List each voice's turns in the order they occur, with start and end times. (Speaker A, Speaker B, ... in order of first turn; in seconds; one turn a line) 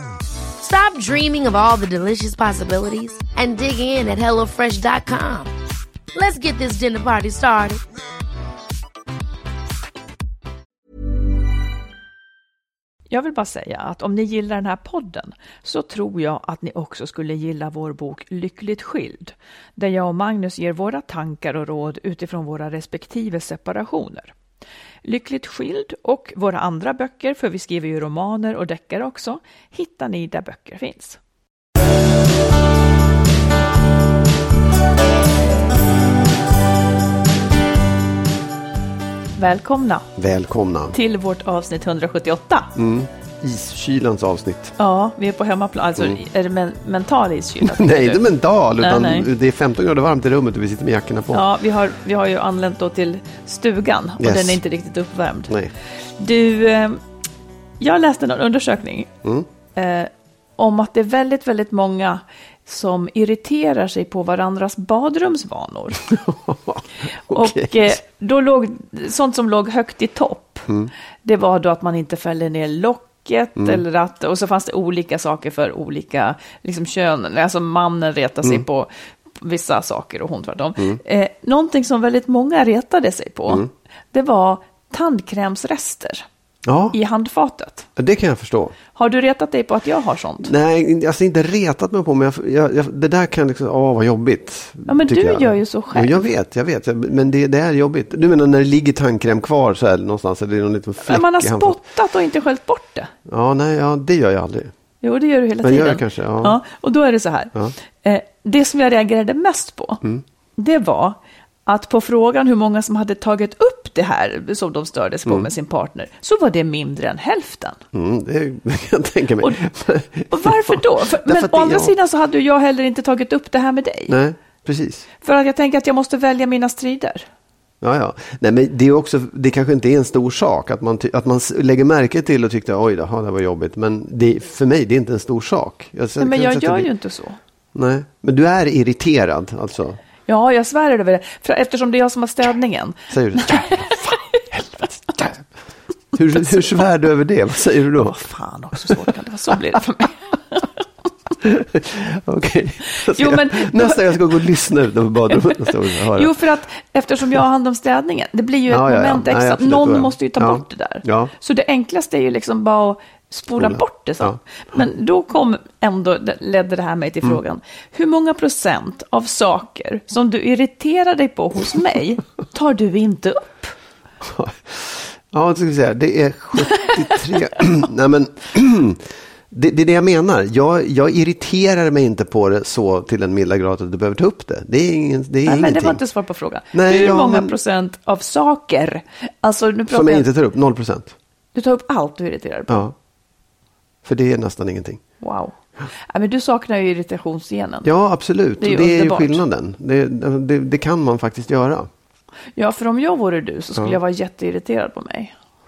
Speaker A: 0.6-5.5
Speaker A: 6.1-7.8
Speaker B: 13.1-24.3
Speaker B: 25.0-31.2
Speaker B: 39.4-40.1
Speaker C: 40.1-40.9
Speaker B: 40.9-42.7
Speaker C: 42.7-44.7
Speaker B: 44.8-48.2
Speaker C: 47.6-51.4
Speaker B: 48.8-49.3
Speaker B: 51.3-55.5
Speaker C: 54.2-54.6
Speaker B: 56.2-57.0
Speaker B: 57.8-59.1
Speaker B: 59.7-66.0
Speaker C: 66.0-68.0
Speaker B: 67.3-70.7
Speaker B: 71.2-86.2
Speaker C: 73.6-73.8
Speaker C: 86.6-87.0
Speaker B: 86.9-87.9
Speaker C: 88.0-88.8
Speaker B: 88.9-90.5
Speaker C: 90.4-101.8
Speaker B: 94.9-96.3
Speaker B: 101.0-103.1
Speaker C: 103.2-104.7
Speaker B: 105.0-110.0
Speaker C: 105.6-106.6
Speaker B: 110.6-117.8
Speaker C: 117.9-121.9
Speaker B: 120.3-124.1
Speaker C: 124.1-125.0
Speaker B: 125.2-127.2
Speaker C: 127.8-136.9
Speaker B: 136.2-137.4
Speaker C: 137.7-140.0
Speaker B: 140.3-145.3
Speaker C: 143.1-143.9
Speaker C: 144.5-145.4
Speaker C: 146.1-148.2
Speaker B: 146.4-146.8
Speaker B: 147.9-150.8
Speaker C: 151.4-156.3
Speaker B: 152.9-154.2
Speaker B: 155.3-173.7
Speaker C: 158.7-161.3
Speaker C: 163.5-164.8
Speaker C: 174.2-186.0
Speaker B: 176.8-177.2
Speaker B: 185.4-190.2
Speaker C: 186.7-187.6
Speaker C: 189.9-191.1
Speaker B: 191.5-192.8
Speaker C: 192.7-192.9
Speaker C: 194.0-195.0
Speaker B: 195.2-195.5
Speaker B: 196.1-197.9
Speaker C: 197.8-201.9
Speaker B: 198.6-199.4
Speaker B: 202.6-205.3